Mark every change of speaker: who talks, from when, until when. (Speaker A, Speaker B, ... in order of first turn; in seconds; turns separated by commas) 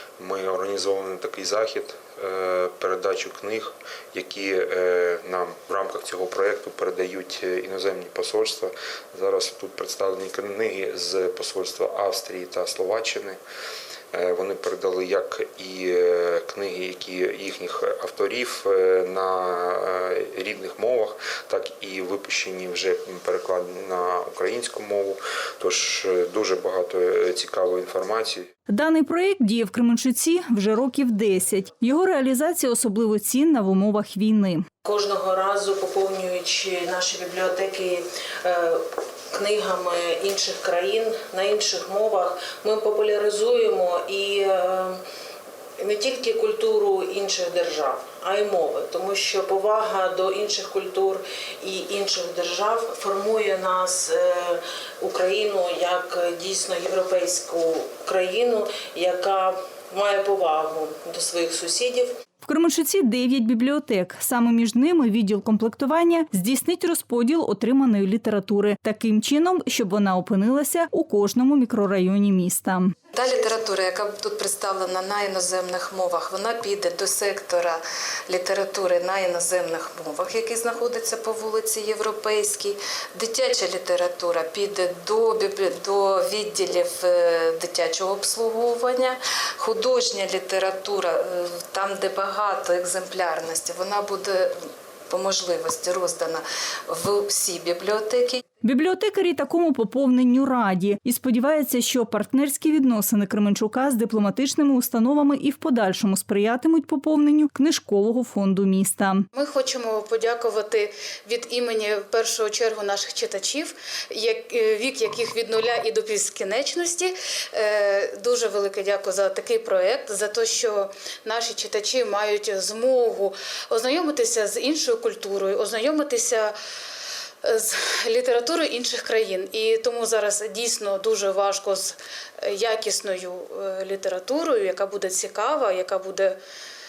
Speaker A: 0.2-13.4, Speaker A: 14.1-28.5, Speaker B: 28.7-34.6, Speaker C: 34.8-45.0, Speaker C: 45.8-62.1, Speaker B: 62.4-72.9, Speaker D: 73.1-94.5, Speaker D: 95.1-98.4, Speaker B: 98.6-109.2, Speaker E: 109.3-126.5, Speaker E: 127.4-136.3